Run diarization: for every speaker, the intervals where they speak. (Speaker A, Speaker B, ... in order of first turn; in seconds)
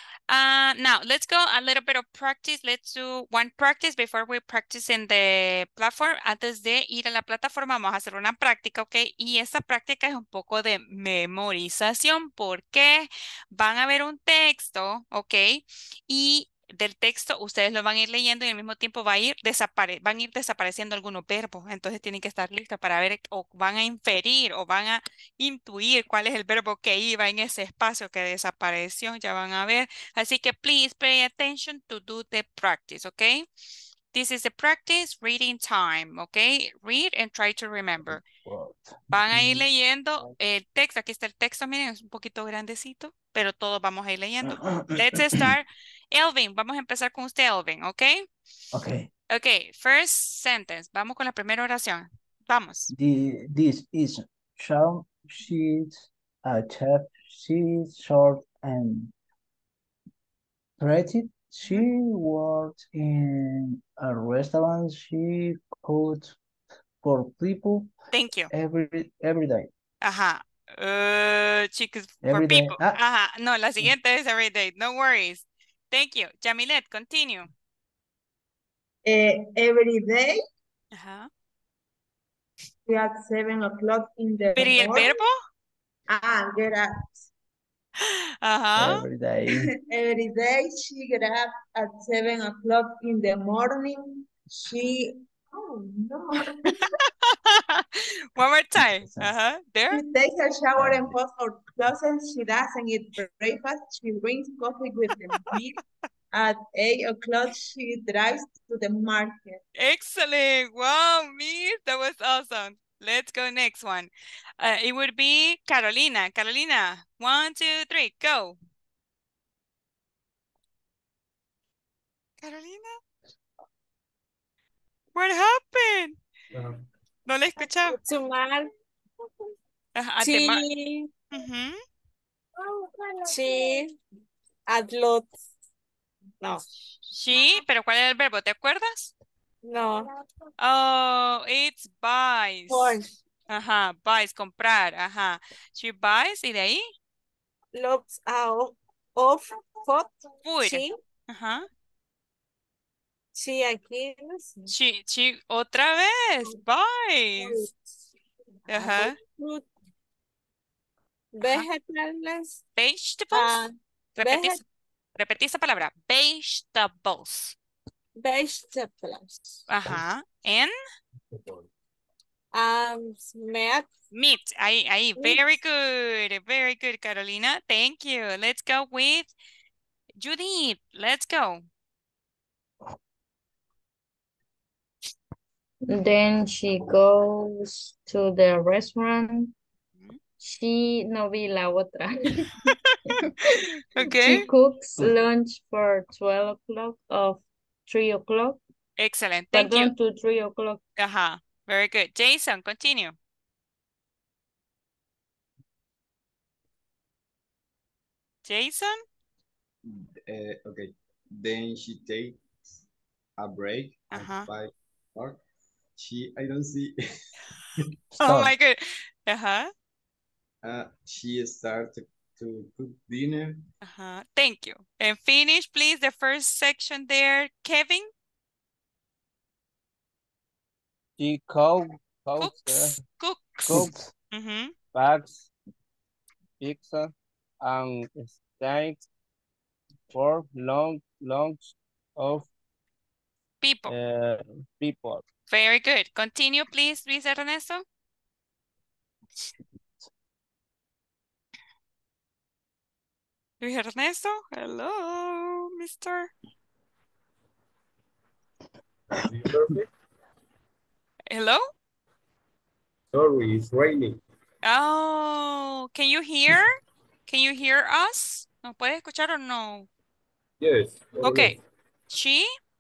Speaker A: 0.3-33.5, 34.1-38.2, 39.1-48.2, 49.3-52.9, 68.1-68.5, 70.0-77.5, 80.9-81.3, 84.5-85.3, 88.0-89.0, 96.6-100.0, 109.8-118.6, 122.4-123.0, 125.1-126.2, 127.3-128.0, 129.9-130.6, 131.3-131.8, 137.1-139.1, 140.6-143.0, 143.5-146.8, 150.4-151.7, 154.7-157.6, 158.7-159.2, 162.8-163.6, 164.2-164.6, 165.2-167.6, 169.7-170.7, 174.1-179.3, 180.2-181.7, 193.9-194.4, 199.0-199.9, 201.0-203.2, 208.4-209.0, 214.1-214.5, 218.2-219.7, 223.8-228.1, 232.4-234.7, 243.6-243.9, 245.5-247.8, 253.6-256.3, 261.3-261.6, 264.6-266.7, 267.3-269.9, 271.2-271.6, 272.1-272.5
Speaker B: 38.1-39.7, 44.4-45.5, 48.7-49.1, 52.9-59.1, 60.8-66.4, 67.0-68.0, 68.5-69.7, 72.2-73.0, 88.8-89.7, 98.8-99.3, 100.8-101.2, 218.2-218.5, 233.6-234.1
Speaker C: 79.0-80.4, 82.9-85.2, 86.1-87.1, 89.5-96.8, 99.9-105.8, 106.3-109.6
Speaker D: 127.8-128.7, 130.2-131.1, 132.8-133.9, 134.7-135.3, 139.7-140.1, 142.7-143.1, 147.7-151.0, 153.3-154.7, 157.4-157.8, 158.7-159.7, 161.3-162.6, 163.3-164.6, 168.2-169.7, 172.5-173.9
Speaker E: 171.3-171.7, 259.2-259.9, 263.1-264.2, 270.6-271.6
Speaker F: 185.9-189.5, 190.4-198.6, 199.5-200.8
Speaker G: 209.8-212.8, 213.4-215.4, 215.9-217.0, 220.6-223.7
Speaker H: 231.2-233.0, 234.9-235.5, 236.6-239.0, 240.1-242.5, 243.9-245.2